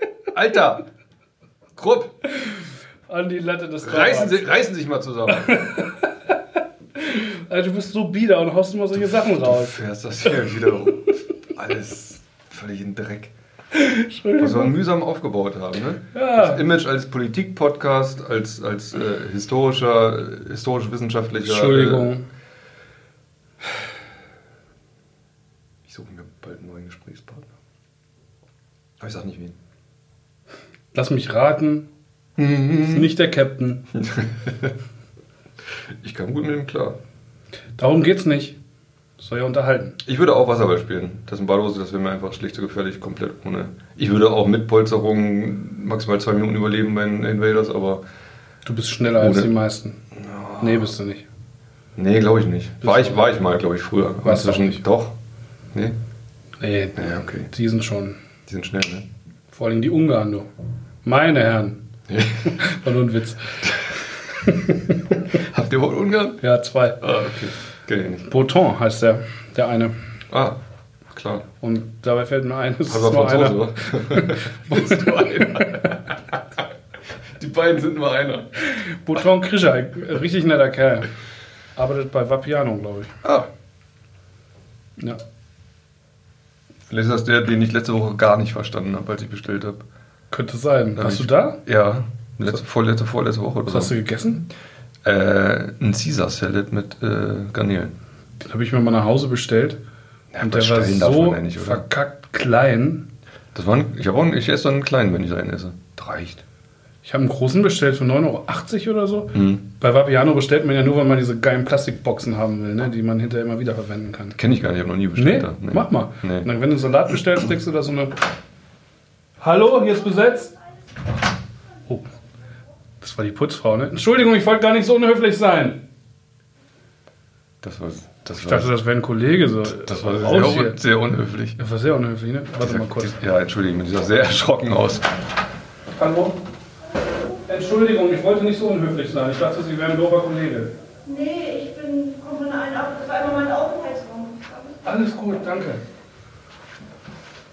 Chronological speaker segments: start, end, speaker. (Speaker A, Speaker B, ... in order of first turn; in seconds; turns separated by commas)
Speaker A: 0.3-0.8, Speaker A: 1.8-2.1, Speaker B: 3.1-4.6, Speaker A: 3.8-5.7, Speaker B: 5.3-6.1, Speaker B: 7.0-9.8, Speaker A: 8.9-13.3, Speaker B: 13.7-14.7, Speaker A: 14.4-22.1, Speaker B: 16.1-16.6, Speaker B: 21.4-22.2, Speaker A: 25.8-27.5, Speaker A: 29.0-29.6, Speaker B: 30.9-31.9, Speaker A: 32.4-33.1, Speaker B: 32.7-33.8, Speaker A: 33.9-34.7, Speaker A: 36.0-37.0, Speaker B: 37.8-38.6, Speaker B: 39.2-40.0, Speaker A: 40.0-48.0, Speaker B: 48.6-50.0, Speaker A: 49.1-49.5, Speaker A: 50.1-50.9, Speaker B: 50.6-51.2, Speaker A: 52.0-55.2, Speaker B: 52.8-53.2, Speaker B: 54.2-54.8, Speaker A: 55.7-56.0, Speaker B: 56.6-58.2, Speaker A: 57.0-57.5, Speaker A: 58.5-59.1, Speaker B: 59.5-60.5, Speaker B: 61.0-61.8, Speaker A: 62.1-62.5, Speaker B: 62.5-63.7, Speaker B: 64.4-65.0, Speaker A: 65.3-66.4, Speaker B: 66.4-67.0, Speaker A: 67.0-68.3, Speaker B: 68.2-69.9, Speaker A: 70.3-70.6, Speaker A: 71.1-71.5, Speaker B: 71.6-75.7, Speaker A: 72.8-76.6, Speaker A: 77.4-78.5, Speaker B: 78.6-81.1, Speaker B: 81.8-83.1, Speaker A: 83.2-83.5, Speaker A: 86.9-89.8, Speaker B: 90.3-91.6, Speaker A: 91.0-93.9, Speaker B: 93.7-94.5, Speaker A: 95.0-98.0, Speaker B: 98.4-99.8, Speaker A: 100.3-101.8, Speaker B: 100.4-103.0, Speaker A: 103.5-106.4, Speaker B: 107.0-114.4, Speaker A: 109.3-109.6, Speaker A: 114.3-116.5, Speaker B: 115.2-118.2, Speaker B: 119.4-120.5, Speaker B: 123.0-125.8, Speaker A: 127.6-128.8, Speaker B: 128.3-130.8, Speaker A: 129.6-131.6, Speaker B: 131.6-133.1, Speaker A: 132.6-135.1, Speaker B: 135.9-136.4, Speaker B: 137.5-140.7, Speaker C: 141.1-144.8, Speaker B: 144.8-145.8